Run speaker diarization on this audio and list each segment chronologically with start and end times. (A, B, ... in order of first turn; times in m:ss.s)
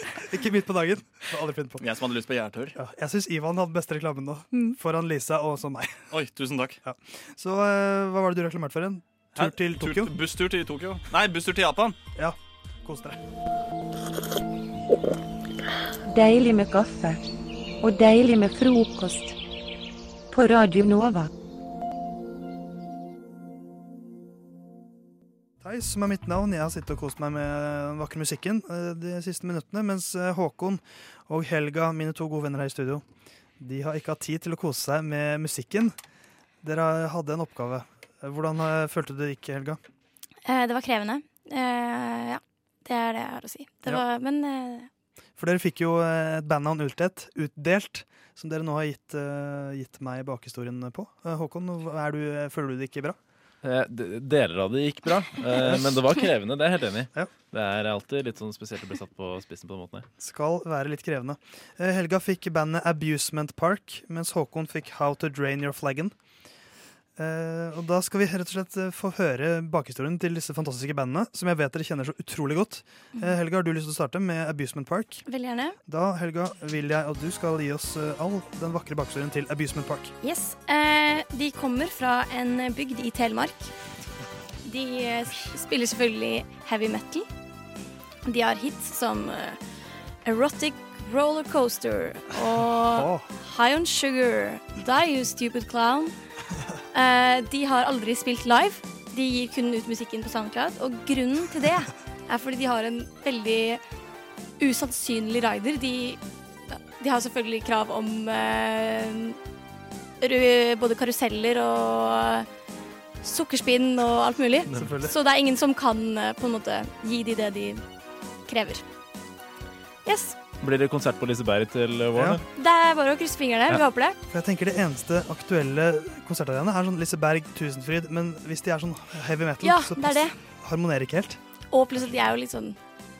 0:00.1-0:01.8 A
0:01.8-0:02.8 B
0:02.8-0:06.0 A
0:06.1-0:06.8 B
0:06.8-0:10.1 A
0:09.4-0:12.0 B
0:12.2-0:13.2 A
0:16.1-0:17.2 C
0:17.8-0:19.4 C
0:20.3-0:21.3 C
0:25.6-0:33.0 A
0:33.6-0:35.9 A
0:36.6-0:39.8 A
0:40.4-0:44.9 D
0:45.4-0:53.2 A
0:53.6-1:00.1 E
0:55.5-0:56.0 A
1:00.2-1:06.1 A
1:07.2-1:15.2 A
1:15.2-1:15.8 D
1:15.9-1:20.1 A
1:20.2-1:23.7 D
1:24.6-1:27.3 D
1:28.2-1:29.6 D
1:30.2-1:36.1 D
1:32.8-1:33.3 A
1:36.9-1:43.8 D
1:44.6-1:49.4 D
1:50.2-1:52.5 D
1:53.2-1:57.8 D
1:54.7-1:55.2 A
1:58.5-1:58.8 D
2:00.0-2:00.4 D
2:00.6-2:02.4 E
2:02.1-2:02.4 A
2:02.5-2:04.2 D
2:04.3-2:11.4 A
2:09.6-2:10.3 D
2:11.7-2:12.8 D